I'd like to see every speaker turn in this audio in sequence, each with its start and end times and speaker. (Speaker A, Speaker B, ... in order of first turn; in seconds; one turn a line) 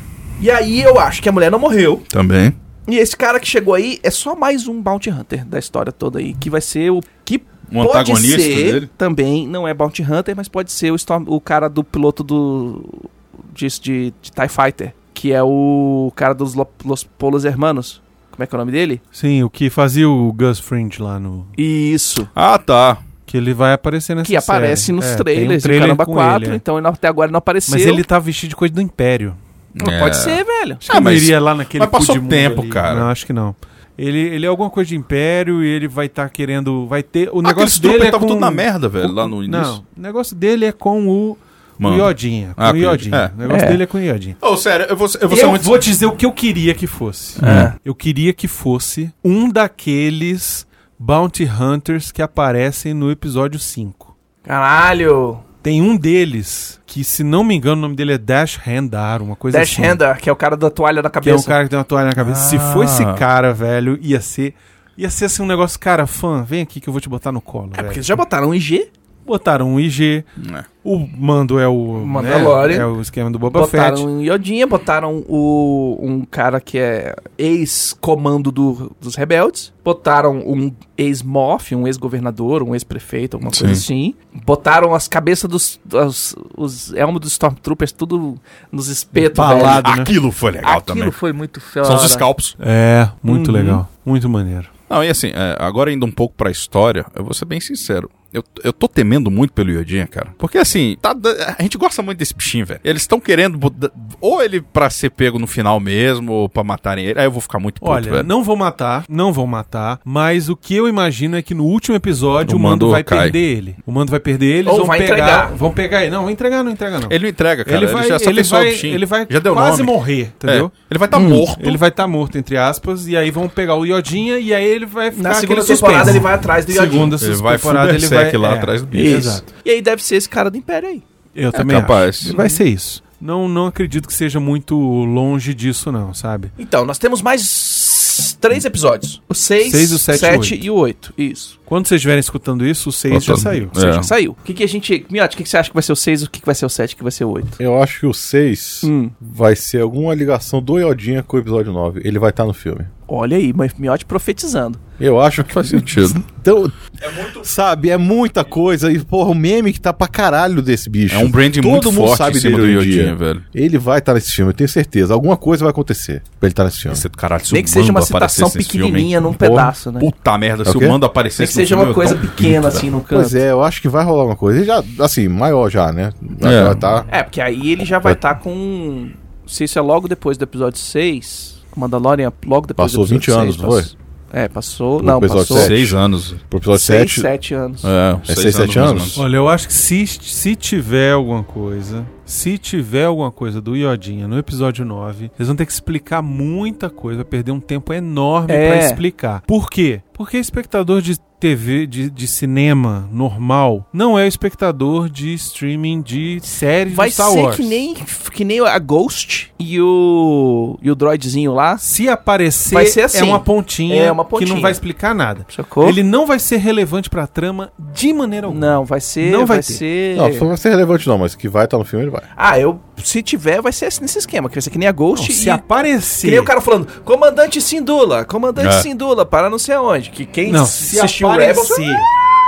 Speaker A: 0.4-2.0
Speaker B: 2.1-2.5
Speaker A: 2.9-19.0
Speaker B: 7.7-8.9
Speaker C: 19.1-21.5
Speaker A: 21.6-22.3
Speaker B: 22.3-23.0
Speaker C: 23.3-26.6
Speaker A: 24.2-28.0
Speaker C: 27.7-29.4
Speaker B: 29.8-33.1
Speaker A: 29.8-30.8
Speaker C: 30.9-44.4
Speaker B: 37.4-39.8
Speaker B: 41.8-43.3
Speaker A: 43.5-43.8
Speaker B: 44.4-45.8
Speaker C: 45.3-54.1
Speaker B: 47.4-47.7
Speaker A: 47.4-47.7
Speaker A: 54.4-55.4
Speaker C: 55.6-60.0
Speaker A: 59.5-61.6
Speaker C: 61.2-68.2
Speaker B: 62.2-63.2
Speaker A: 67.7-68.9
Speaker C: 69.2-70.3
Speaker B: 70.4-70.7
Speaker C: 70.8-74.1
Speaker A: 72.0-72.9
Speaker A: 73.5-89.9
Speaker B: 83.5-83.8
Speaker C: 89.2-90.1
Speaker B: 89.4-91.2
Speaker A: 90.6-92.3
Speaker B: 91.8-92.5
Speaker C: 92.6-94.7
Speaker A: 93.3-93.8
Speaker B: 94.9-108.3
Speaker C: 107.8-120.7
Speaker B: 112.4-113.3
Speaker A: 114.6-115.5
Speaker B: 117.1-121.8
Speaker A: 121.1-121.5
Speaker C: 121.5-129.4
Speaker A: 125.1-127.1
Speaker B: 127.2-129.4
Speaker A: 128.9-131.0
Speaker C: 131.3-136.5
Speaker B: 131.5-132.4
Speaker A: 132.2-132.6
Speaker A: 136.6-141.6
Speaker C: 139.6-140.6
Speaker C: 141.7-143.7
Speaker B: 143.1-144.1
Speaker A: 143.7-147.6
Speaker D: 147.6-152.9
Speaker A: 148.8-149.1
Speaker A: 153.1-154.8
Speaker D: 155.0-167.0
Speaker B: 155.4-156.2
Speaker B: 161.1-163.4
Speaker B: 166.9-169.2
Speaker A: 167.5-170.1
Speaker D: 169.3-169.7
Speaker B: 169.9-172.8
Speaker D: 170.6-171.0
Speaker A: 171.4-173.4
Speaker D: 173.1-177.1
Speaker B: 176.4-176.8
Speaker A: 177.1-185.8
Speaker D: 182.8-183.9
Speaker D: 185.0-187.3
Speaker B: 185.5-186.4
Speaker A: 186.7-187.9
Speaker B: 187.8-189.2
Speaker D: 188.3-189.2
Speaker C: 189.1-207.8
Speaker A: 198.5-199.0
Speaker A: 206.9-211.8
Speaker C: 211.8-219.8
Speaker A: 212.7-214.8
Speaker A: 215.5-216.0
Speaker A: 218.5-220.5
Speaker D: 220.1-222.2
Speaker A: 222.3-225.6
Speaker C: 225.2-226.5
Speaker A: 226.2-232.0
Speaker B: 228.6-228.9
Speaker C: 230.5-232.1